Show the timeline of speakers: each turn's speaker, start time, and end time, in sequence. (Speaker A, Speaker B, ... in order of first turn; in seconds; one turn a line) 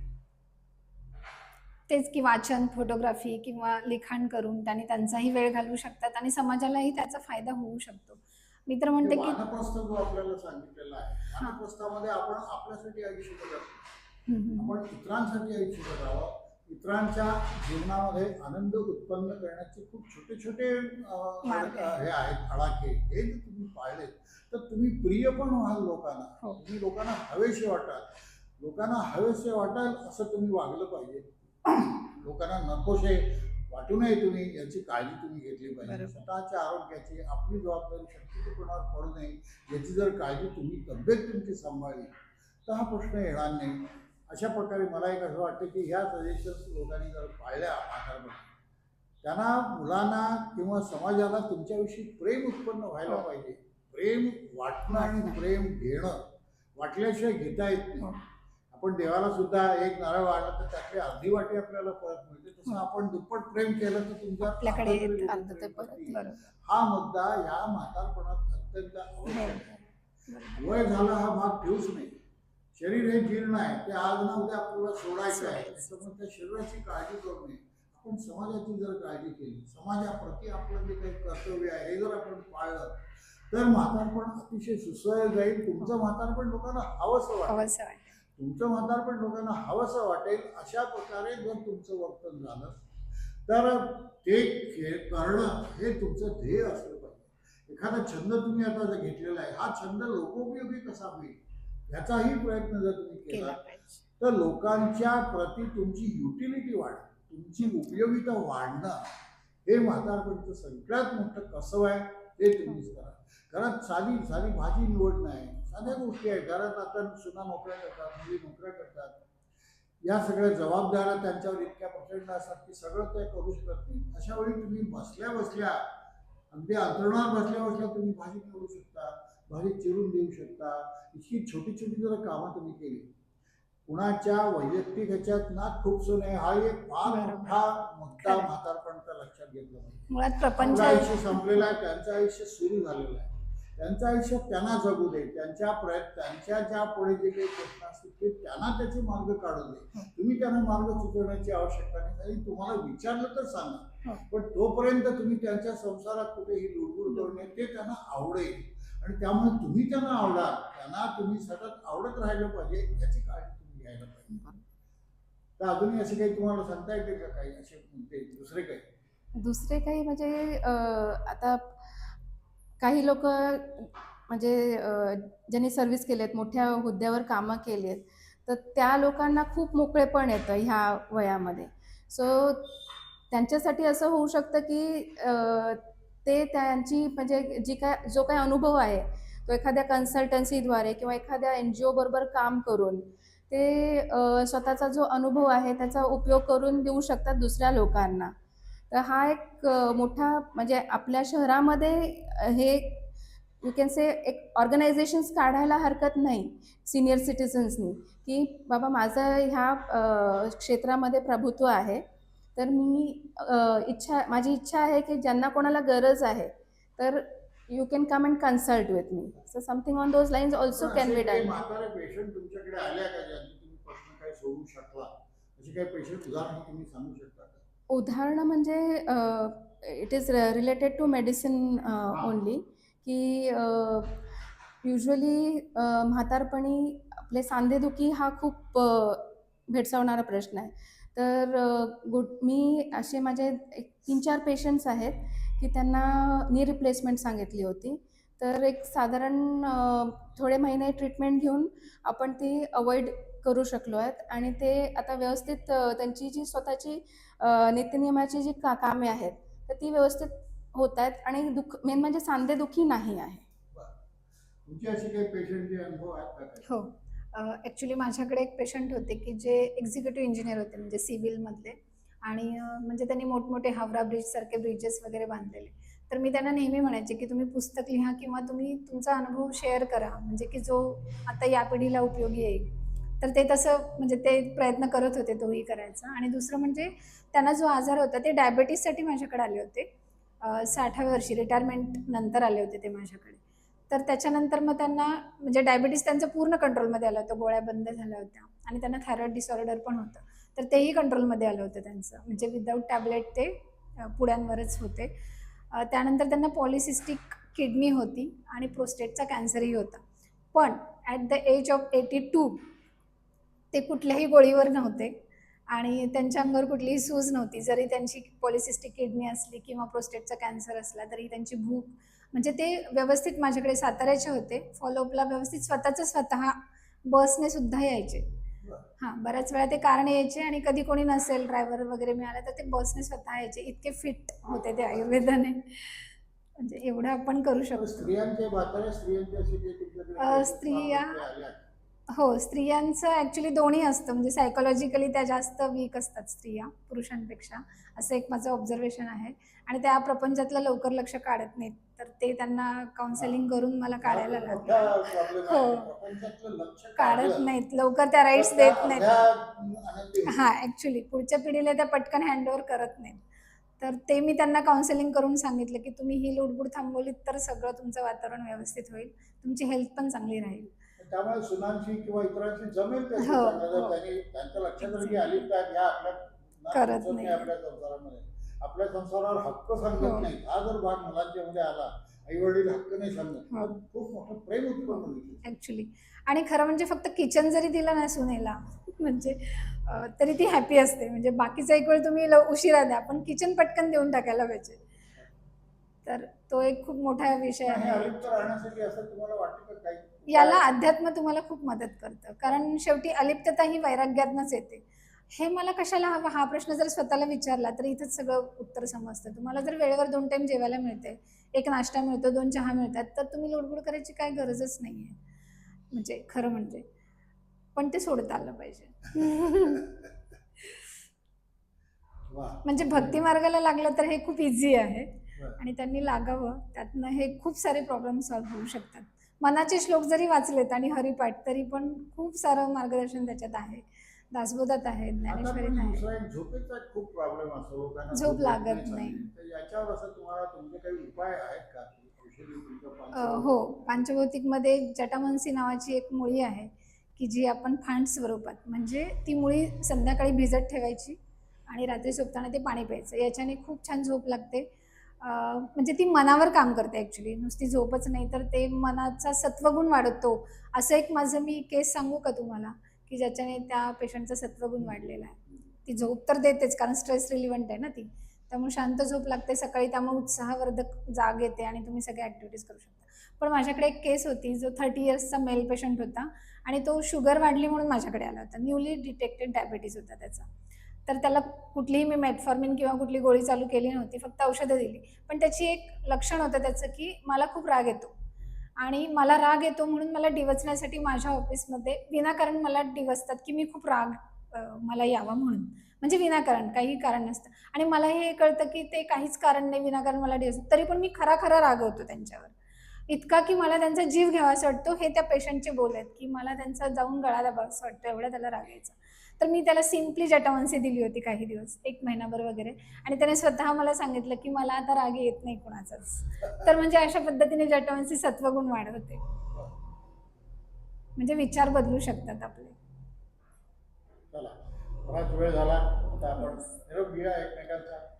Speaker A: 1.9-9.4
Speaker B: 9.0-13.8
Speaker A: 14.3-14.8
Speaker B: 14.6-48.5
Speaker A: 21.5-22.0
Speaker A: 35.9-36.2
Speaker B: 49.2-58.2
Speaker A: 55.0-55.3
Speaker B: 58.7-69.8
Speaker A: 64.4-65.4
Speaker C: 65.3-66.3
Speaker A: 66.1-66.5
Speaker A: 69.3-69.8
Speaker A: 70.3-70.7
Speaker B: 70.5-72.2
Speaker B: 72.8-87.7
Speaker A: 75.4-75.9
Speaker A: 87.5-88.1
Speaker B: 88.4-92.8
Speaker B: 93.5-103.6
Speaker A: 103.3-104.0
Speaker B: 104.2-109.1
Speaker B: 109.7-119.2
Speaker B: 120.0-126.0
Speaker B: 126.5-133.1
Speaker B: 133.9-164.4
Speaker A: 137.1-137.6
Speaker A: 138.2-138.5
Speaker A: 140.1-141.7
Speaker B: 165.6-168.9
Speaker C: 169.4-172.1
Speaker C: 172.8-198.3
Speaker C: 198.9-203.1
Speaker C: 203.6-212.0
Speaker C: 212.6-221.6
Speaker B: 220.7-227.6
Speaker C: 227.9-234.3
Speaker C: 234.8-263.4
Speaker B: 264.6-266.7
Speaker A: 266.7-289.9
Speaker A: 290.4-305.1
Speaker A: 305.7-310.0
Speaker A: 310.5-312.6
Speaker A: 313.7-315.1
Speaker A: 315.7-328.3
Speaker A: 329.0-338.1
Speaker B: 334.9-335.3
Speaker B: 337.8-341.7
Speaker A: 340.2-341.2
Speaker A: 342.1-355.9
Speaker B: 353.1-353.4
Speaker B: 354.0-357.5
Speaker A: 357.0-359.1
Speaker B: 358.3-360.5
Speaker A: 360.3-363.2
Speaker A: 363.8-370.7
Speaker B: 371.0-385.4
Speaker A: 373.2-374.0
Speaker A: 374.8-375.5
Speaker A: 376.7-377.5
Speaker A: 380.0-380.3
Speaker A: 385.4-394.8
Speaker A: 396.1-398.3
Speaker B: 397.7-400.7
Speaker A: 400.3-415.2
Speaker A: 415.9-416.9
Speaker A: 417.8-419.9
Speaker B: 419.2-420.1
Speaker B: 422.3-423.2
Speaker A: 422.6-436.0
Speaker B: 435.2-443.5
Speaker A: 438.1-439.2
Speaker A: 443.1-454.7
Speaker A: 455.2-480.5
Speaker A: 481.1-488.1
Speaker A: 488.8-502.5
Speaker A: 503.1-519.2
Speaker A: 521.2-522.8
Speaker B: 524.3-528.0